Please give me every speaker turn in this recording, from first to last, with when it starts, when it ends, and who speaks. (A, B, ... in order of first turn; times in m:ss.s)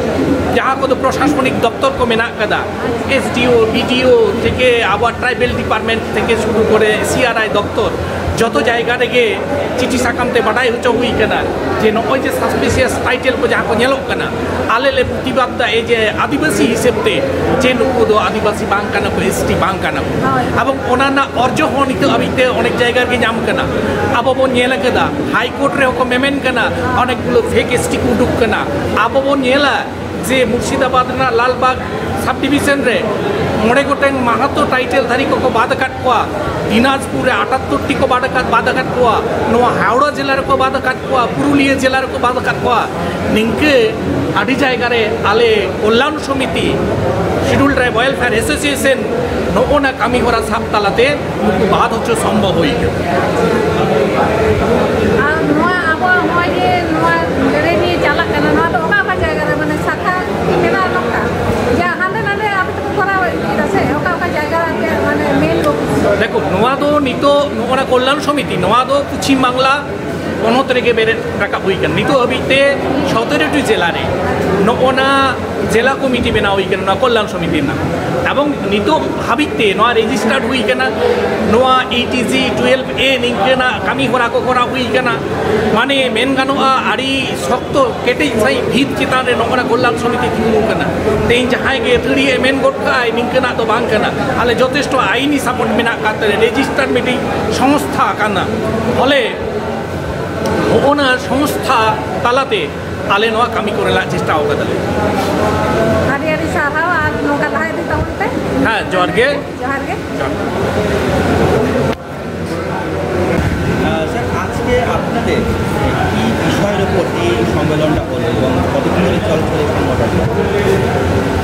0:00.5-0:33.1 A
0:02.8-0:03.1 B
0:20.2-0:20.6 B
0:33.6-0:43.8 A
0:44.4-0:46.7 A
0:47.5-0:52.9 A
0:55.2-1:06.0 B
1:06.2-1:09.8 A
1:10.4-1:14.1 A
1:14.2-1:14.6 B
1:14.6-1:20.9 A
1:21.5-1:25.2 A
1:25.7-1:39.4 A
1:40.7-1:44.8 A
1:46.1-1:50.0 B
1:48.6-1:49.4 A
1:53.8-2:00.4 C